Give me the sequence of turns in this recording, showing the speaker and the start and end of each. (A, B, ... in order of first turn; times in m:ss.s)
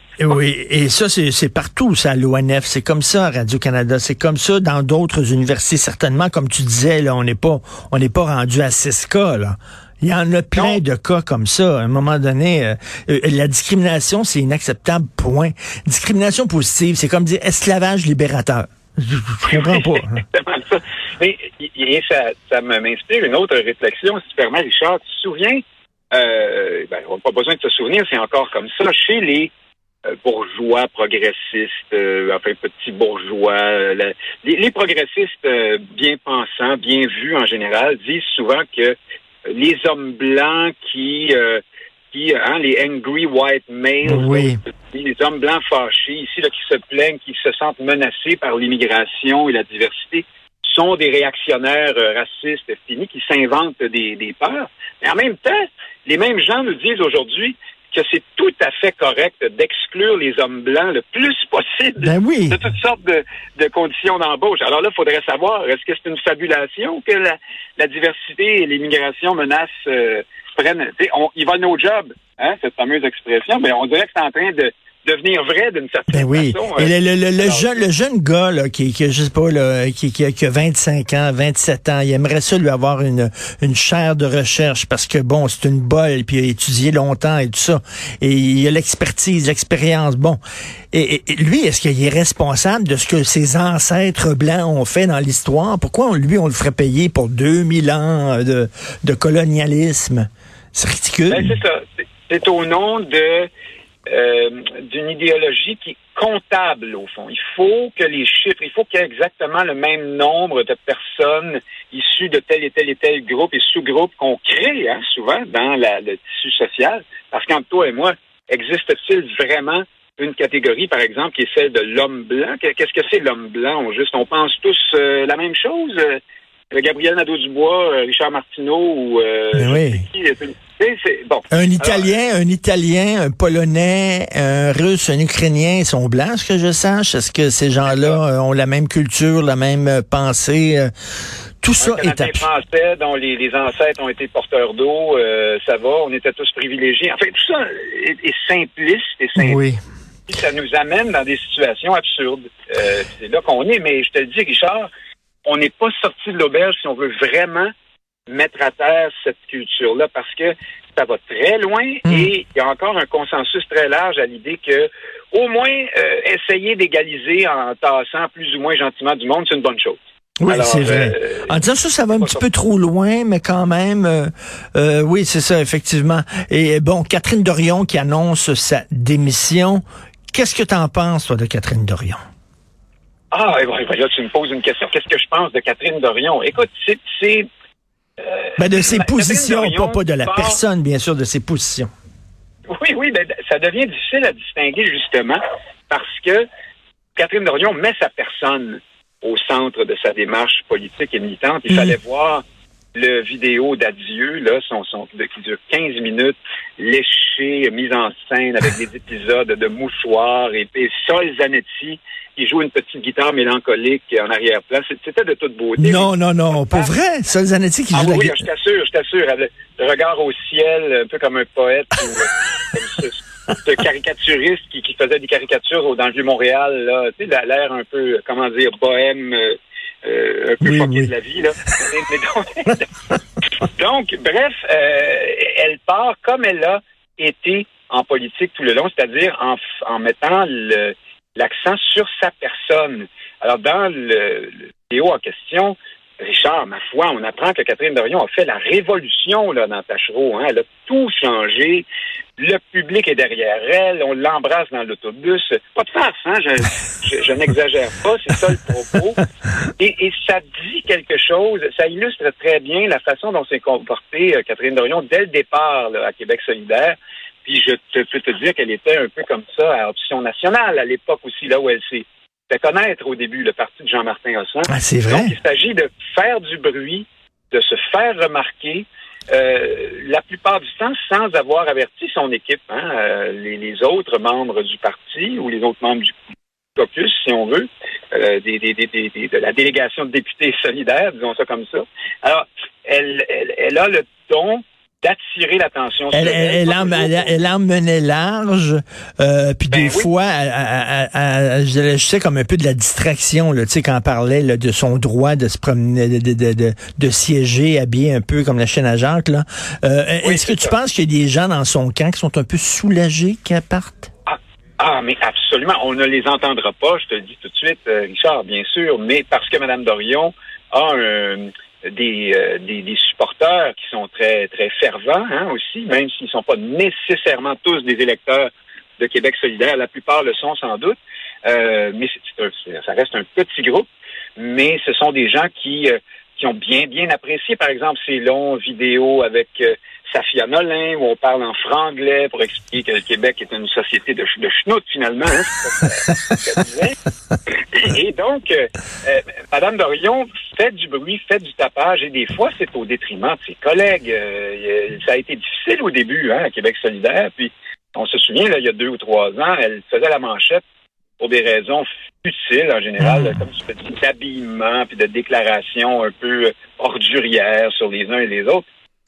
0:00.2-0:20.2 A
0:10.6-0:10.8 B
0:19.4-0:25.6 B
0:26.1-0:29.5 B
0:30.1-1:17.8 B
0:44.0-0:44.6 A
1:02.0-1:02.6 A
1:16.1-1:30.4 A
1:30.9-1:41.5 A
1:41.3-1:43.5 B
1:44.1-2:06.2 B
2:06.7-2:12.1 B
2:09.5-2:10.0 A
2:11.5-2:20.9 A
2:17.8-2:18.2 B
2:21.6-2:22.5 A
2:21.8-2:29.6 B
2:29.4-2:29.8 A
2:30.3-2:34.9 B
2:35.4-2:37.7 B
2:38.3-2:51.6 B
2:42.0-2:42.3 A
2:50.4-3:02.2 A
2:52.1-2:52.4 B
3:03.3-3:07.5 B
3:08.2-3:10.6 B
3:08.6-3:11.9 A
3:12.7-3:16.5 B
3:17.2-3:22.4 B
3:22.9-3:36.9 B
3:35.8-3:38.4 A
3:37.9-3:52.8 B
3:50.6-3:51.1 A
3:53.6-4:11.8 B
4:12.4-4:19.2 B
4:19.8-4:46.1 B
4:34.7-4:35.3 A
4:46.8-4:57.4 B
4:56.1-5:14.1 A
4:59.7-5:00.1 B
5:10.2-5:10.8 B
5:14.2-5:47.0 B
5:47.7-6:00.6 B
6:01.2-6:08.6 B
6:03.0-6:03.4 A